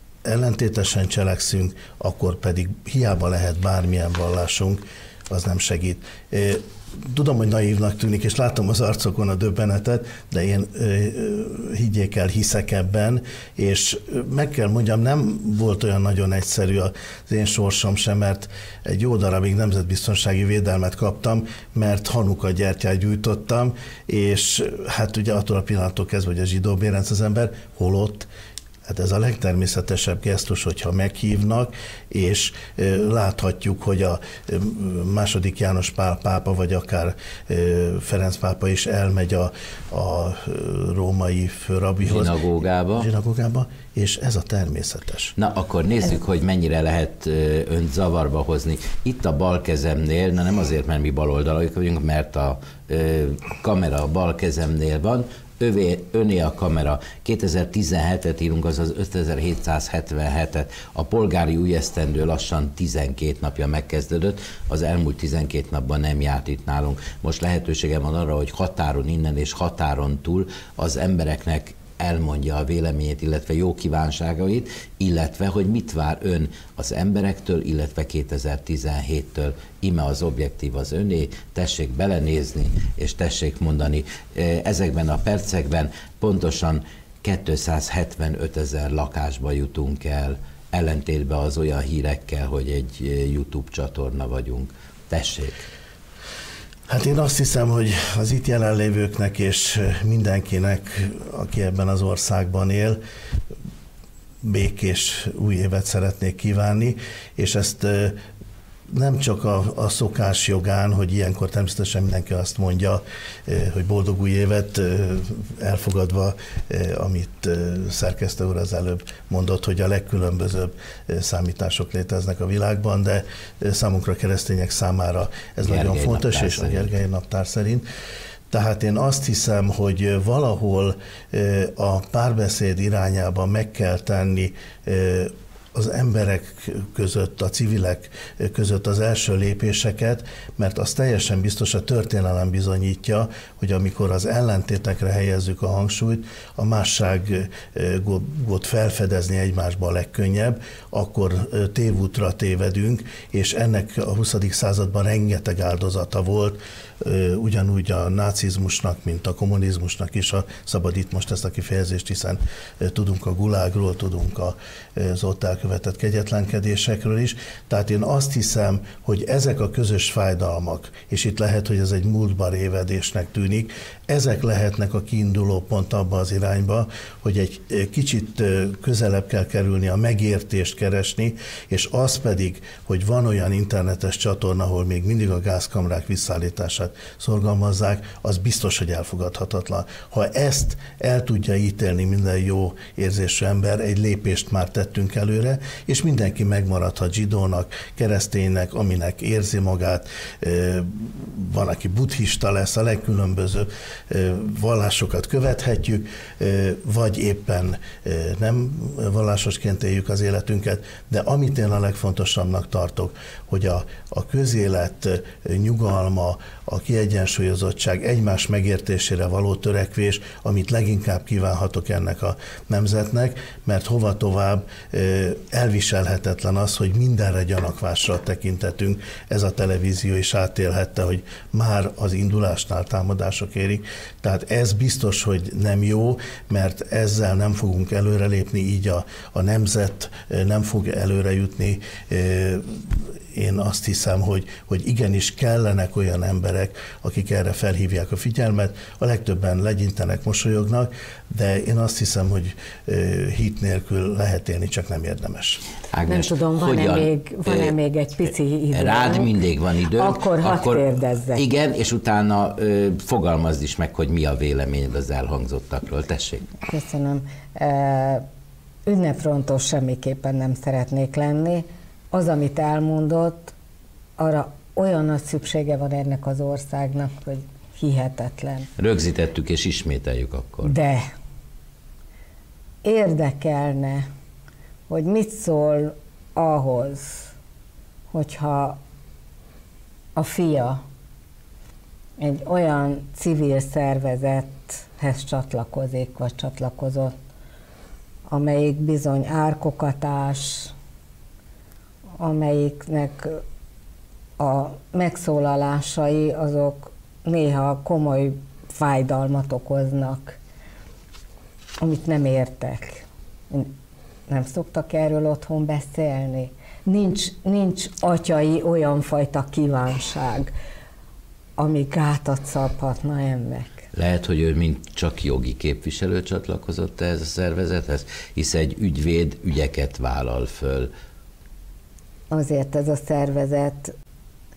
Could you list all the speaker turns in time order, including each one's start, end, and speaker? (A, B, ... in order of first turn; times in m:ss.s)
0:00.2-0:28.3 A
0:28.8-0:42.4 A
0:42.0-0:43.1 B
0:43.0-0:45.3 A
0:45.4-1:35.6 B
1:36.9-1:43.0 A
1:44.4-1:48.2 A
1:48.9-2:07.8 A
2:05.6-2:06.9 B
2:08.5-4:15.6 A
4:15.9-4:17.7 B
4:16.1-4:19.4 C
4:18.7-4:26.5 B
4:20.0-4:21.4 C
4:26.6-4:28.2 C
4:28.8-4:33.5 C
4:34.2-4:38.7 C
4:38.8-4:40.7 B
4:40.6-4:41.1 C
4:42.8-4:44.1 C
4:44.9-4:47.3 C
4:48.1-4:48.8 C
4:50.2-4:50.8 C
4:52.2-4:57.1 C
4:58.3-5:00.7 C
5:02.2-5:03.4 C
5:04.4-5:10.4 C
5:11.8-5:13.7 C
5:14.3-5:20.5 C
5:21.6-5:23.8 C
5:23.9-5:30.9 B
5:32.3-5:33.9 C